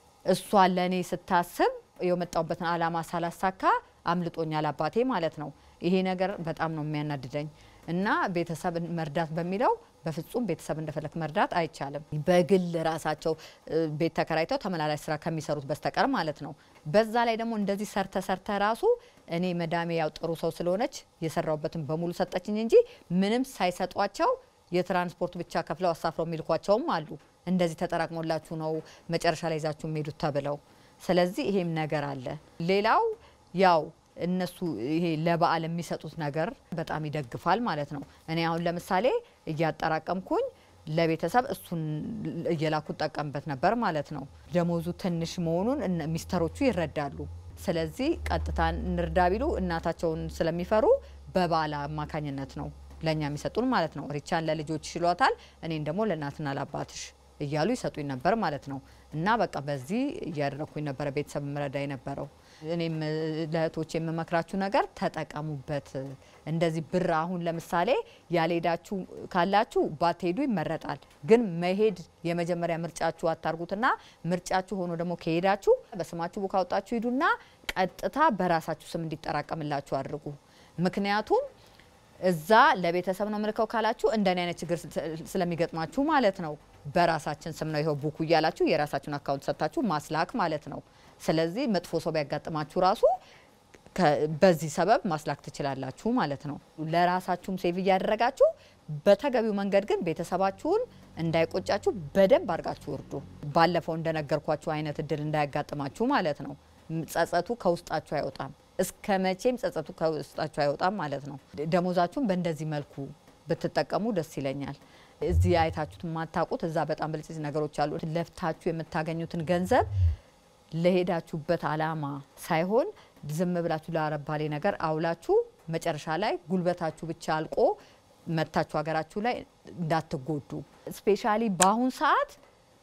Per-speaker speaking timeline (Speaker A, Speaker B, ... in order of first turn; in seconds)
Speaker A: 0.3-81.5, 82.2-93.2, 93.9-119.9, 120.8-127.8, 128.3-132.4